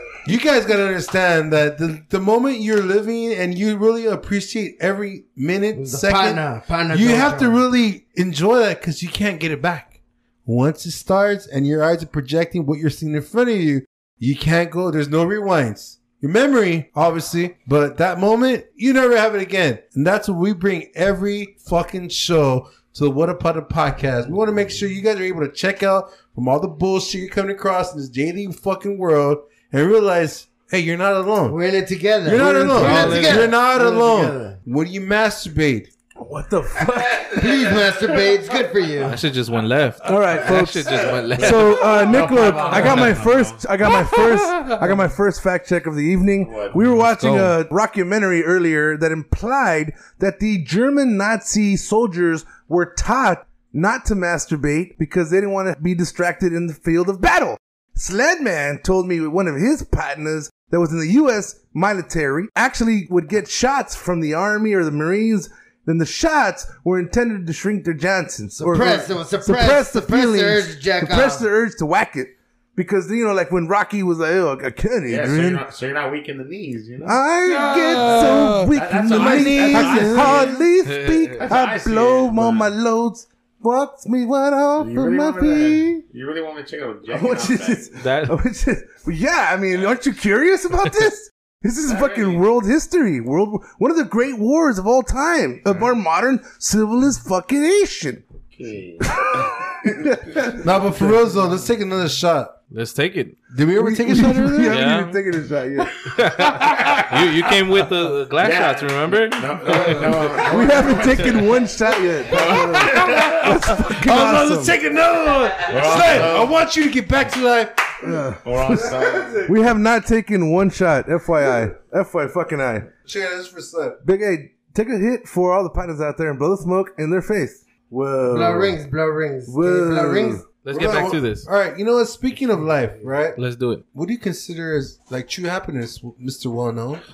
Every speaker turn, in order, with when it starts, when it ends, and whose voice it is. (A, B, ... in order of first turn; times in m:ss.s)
0:00.2-0:31.6 A
0:05.7-0:07.6 B
0:31.5-0:34.6 B
0:32.2-0:35.9 A
0:32.4-0:32.9 C
0:32.7-0:33.6 D
0:36.2-0:37.8 C
0:37.3-0:39.2 B
0:39.0-0:42.0 D
0:40.0-1:15.7 C
0:41.1-0:43.6 E
0:42.7-0:43.0 D
0:46.4-0:46.8 E
0:47.0-0:47.6 D
1:08.6-1:11.5 B
1:15.1-1:20.6 E
1:17.0-1:26.0 C
1:17.5-1:18.6 D
1:18.0-1:20.5 A
1:20.8-1:21.4 D
1:21.4-1:22.7 E
1:24.8-1:27.9 E
1:27.1-1:38.2 C
1:28.0-1:28.4 D
1:31.9-1:32.4 E
1:38.5-1:39.5 E
1:39.0-1:41.2 C
1:40.6-1:42.6 A
1:42.7-1:43.4 D
1:43.5-1:44.8 A
1:43.8-1:46.1 C
1:44.6-1:45.2 D
1:46.1-1:50.5 D
1:46.6-1:47.1 A
1:48.4-1:51.6 E
1:49.7-1:50.0 A
1:50.4-1:54.8 C
1:52.3-1:53.6 E
1:52.4-1:58.2 A
1:55.5-1:56.6 E
1:58.0-2:02.9 C
1:58.4-1:59.5 E
1:58.7-1:59.5 A
2:03.0-2:04.0 A
2:04.0-2:08.8 C
2:08.3-2:10.4 B
2:09.5-2:10.4 C
2:10.6-2:11.5 D
2:10.7-2:13.4 A
2:13.4-2:13.8 D
2:13.9-2:17.0 A